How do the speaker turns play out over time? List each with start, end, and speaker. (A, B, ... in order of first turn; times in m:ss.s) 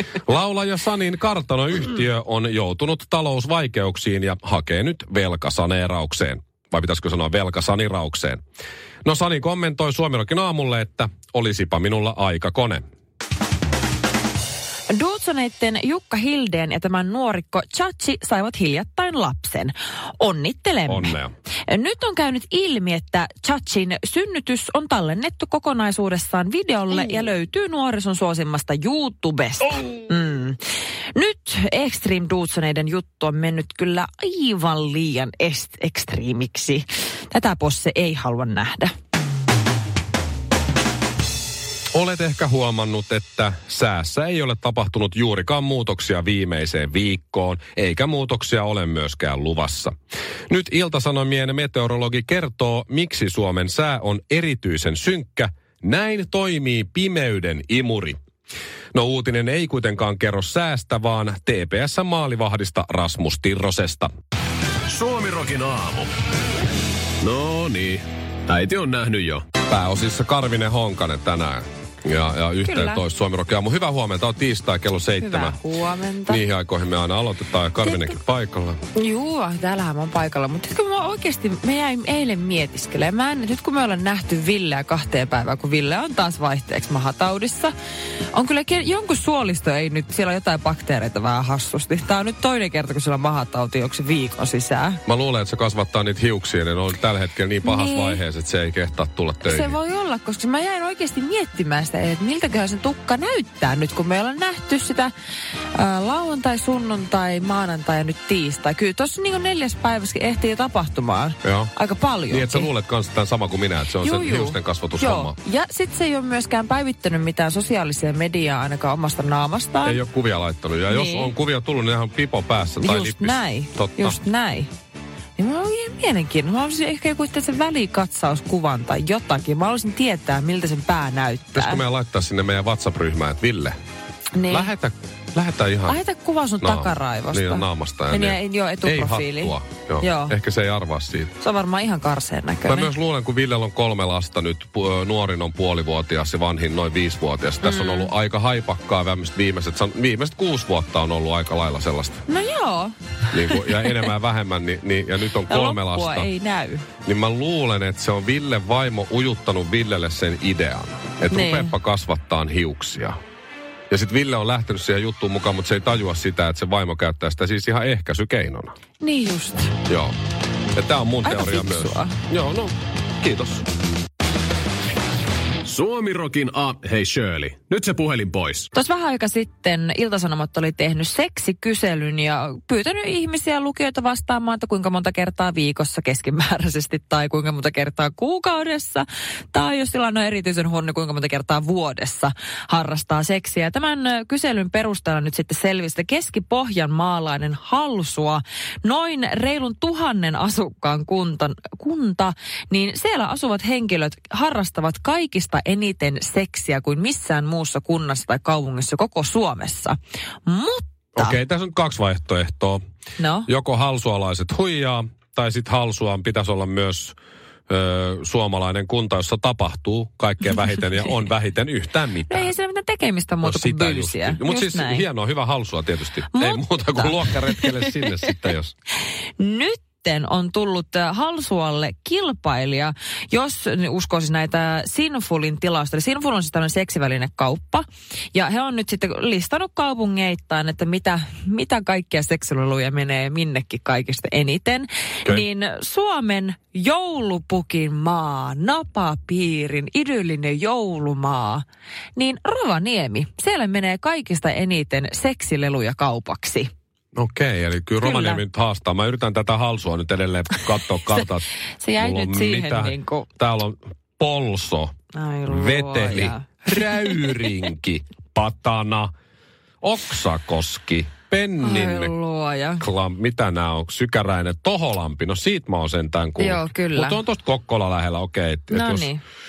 0:00.2-0:08.4 A
0:09.0-0:12.8 A
0:14.9-0:30.6 B
0:20.9-0:21.3 A
0:31.1-0:38.9 B
0:41.9-0:49.9 A
0:50.5-0:58.2 A
0:58.9-1:04.1 A
1:04.9-1:06.1 C
1:07.2-1:09.4 C
1:09.6-1:15.6 A
1:12.6-1:13.0 B
1:15.1-1:16.4 B
1:16.2-1:18.8 A
1:17.8-1:18.2 B
1:18.9-1:27.7 B
1:28.3-1:35.0 B
1:35.0-1:39.8 A
1:37.6-1:38.2 B
1:39.4-1:45.1 B
1:45.7-1:52.7 B
1:51.4-1:51.7 A
1:52.3-1:55.3 A
1:54.0-2:00.0 B
1:59.8-2:04.2 A
2:00.9-2:01.3 B
2:02.8-2:04.7 B
2:05.4-2:11.8 B
2:11.5-2:13.8 A
2:14.3-2:14.7 B
2:14.5-2:16.0 A
2:15.8-2:20.4 B
2:16.6-2:21.3 A
2:21.4-2:22.9 B
2:22.6-2:32.2 A
2:27.6-2:28.1 B
2:32.3-2:34.1 B
2:33.3-2:36.3 A
2:35.4-2:36.9 B
2:37.0-2:43.2 A
2:41.3-2:41.7 B
2:43.9-2:48.7 A
2:49.0-2:49.8 B
2:49.8-2:50.1 A
2:50.7-2:53.6 A
2:51.2-2:52.2 B
2:55.6-2:58.7 C
2:58.7-3:31.4 B
3:31.1-3:32.8 A
3:33.2-3:33.5 B
3:33.5-3:37.2 A
3:37.7-3:42.5 A
3:42.3-3:45.0 B
3:43.4-3:48.7 A
3:46.3-3:48.3 B
3:49.4-4:16.7 B
4:17.1-4:24.9 A
4:18.0-4:18.4 B
4:21.1-4:23.3 B
4:25.1-4:27.4 B
4:25.5-4:29.1 A
4:29.8-4:32.1 A
4:31.6-4:32.8 B
4:32.8-4:39.1 A
4:36.4-4:37.2 B
4:38.7-4:39.2 B